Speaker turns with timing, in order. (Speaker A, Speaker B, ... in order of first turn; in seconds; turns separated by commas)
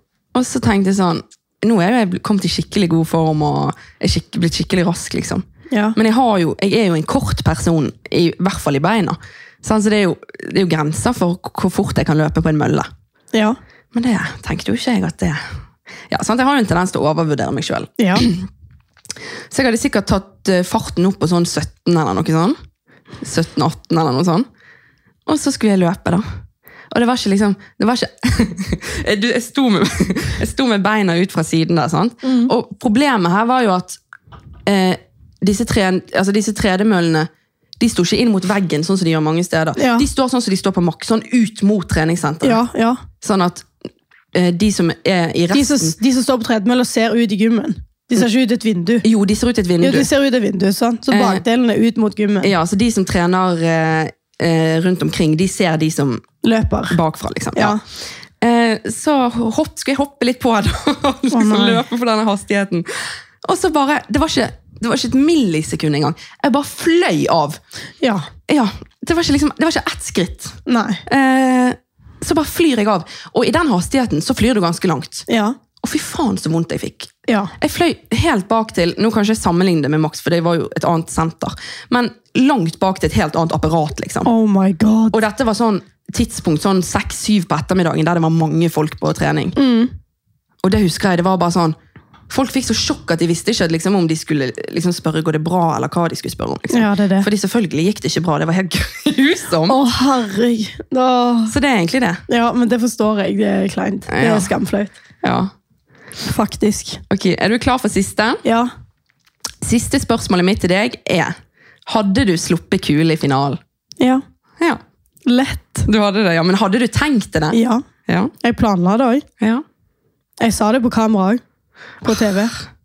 Speaker A: 0.3-12.9, Speaker B: 5.7-6.0, Speaker A: 13.9-15.4, Speaker A: 16.1-18.5, Speaker B: 18.0-18.3, Speaker A: 19.5-22.6, Speaker A: 23.2-24.4, Speaker A: 25.3-26.2, Speaker A: 26.9-34.0, Speaker B: 32.2-32.5, Speaker A: 34.6-37.3, Speaker A: 37.8-42.6, Speaker B: 39.8-40.0, Speaker B: 42.4-43.0, Speaker A: 43.2-43.7, Speaker A: 44.3-45.9, Speaker B: 45.5-49.0, Speaker A: 49.0-50.1, Speaker B: 49.8-52.5, Speaker A: 51.1-51.4, Speaker A: 52.4-56.3, Speaker B: 56.4-57.0, Speaker A: 56.9-57.8, Speaker A: 58.4-67.6, Speaker B: 61.3-61.8, Speaker B: 68.0-68.3, Speaker A: 68.5-75.3, Speaker B: 70.7-71.0, Speaker B: 75.3-75.6, Speaker A: 75.8-84.3, Speaker B: 84.2-85.2, Speaker A: 85.1-89.5, Speaker B: 89.5-89.9, Speaker A: 90.6-91.8, Speaker A: 92.3-99.8, Speaker B: 96.7-97.3, Speaker B: 99.7-101.5, Speaker A: 101.5-102.2, Speaker B: 102.3-104.9, Speaker A: 104.1-104.5, Speaker A: 105.2-105.5, Speaker B: 106.2-107.0, Speaker A: 107.1-108.4, Speaker B: 108.4-108.7, Speaker A: 109.6-111.3, Speaker A: 111.8-113.6, Speaker B: 115.2-115.9, Speaker A: 115.8-118.3, Speaker B: 117.5-117.8, Speaker B: 118.4-119.2, Speaker B: 120.4-121.4, Speaker B: 122.0-122.5